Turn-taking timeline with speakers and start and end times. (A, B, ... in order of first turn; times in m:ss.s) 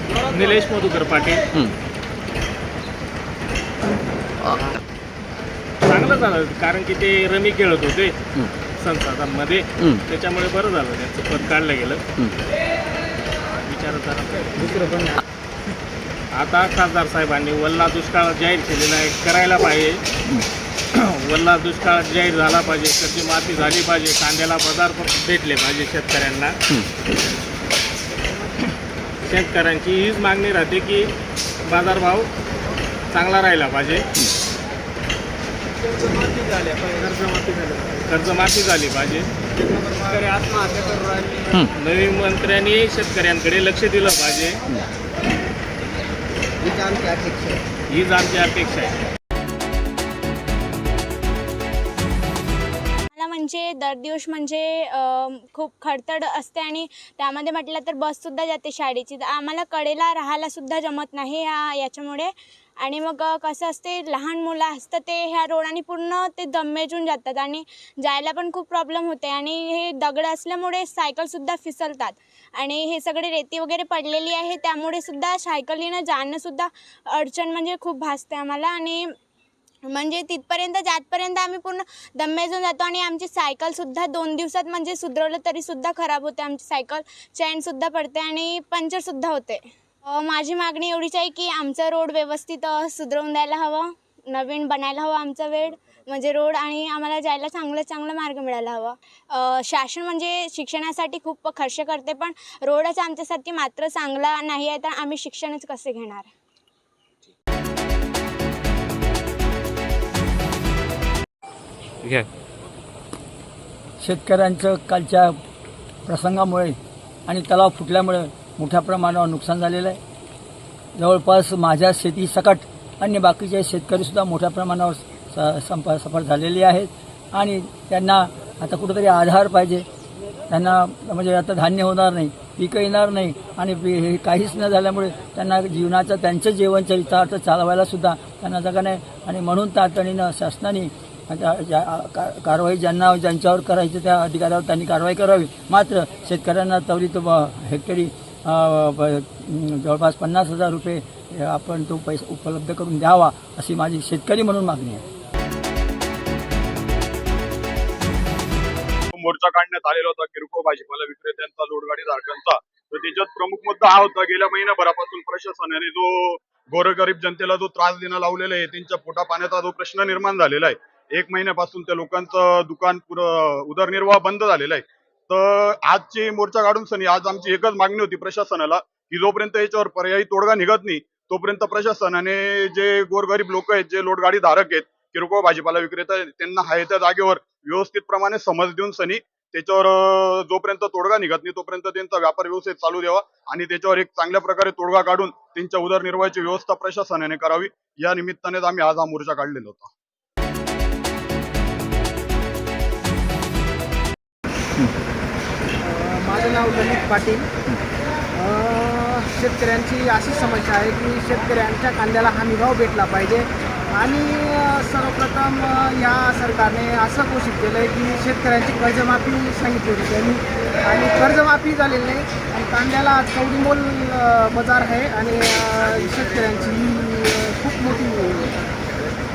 0:00.3-0:01.4 A
0:05.8-0:08.2 A
0:08.8-0:12.0 A
0:13.7-0:14.8 A
0:16.4-0:20.0 A
0:21.0-0:26.6 A
0:29.3-0:31.1 A
0:31.7-0:32.3 A
0:33.1-0:34.0 A
0:37.0-0:39.3 A
0:40.4-0:41.6 B
0:41.8-0:44.6 A
0:46.7-0:47.5 B
0:47.9-0:48.9 A
0:53.1-1:02.3 C
1:02.8-1:19.1 C
1:19.9-1:46.3 C
1:54.0-1:55.4 D
1:56.0-2:00.0 D
2:01.0-2:09.9 D
2:10.5-2:35.0 D
2:39.2-3:19.9 E
3:25.8-3:27.5 F
3:28.4-3:48.7 F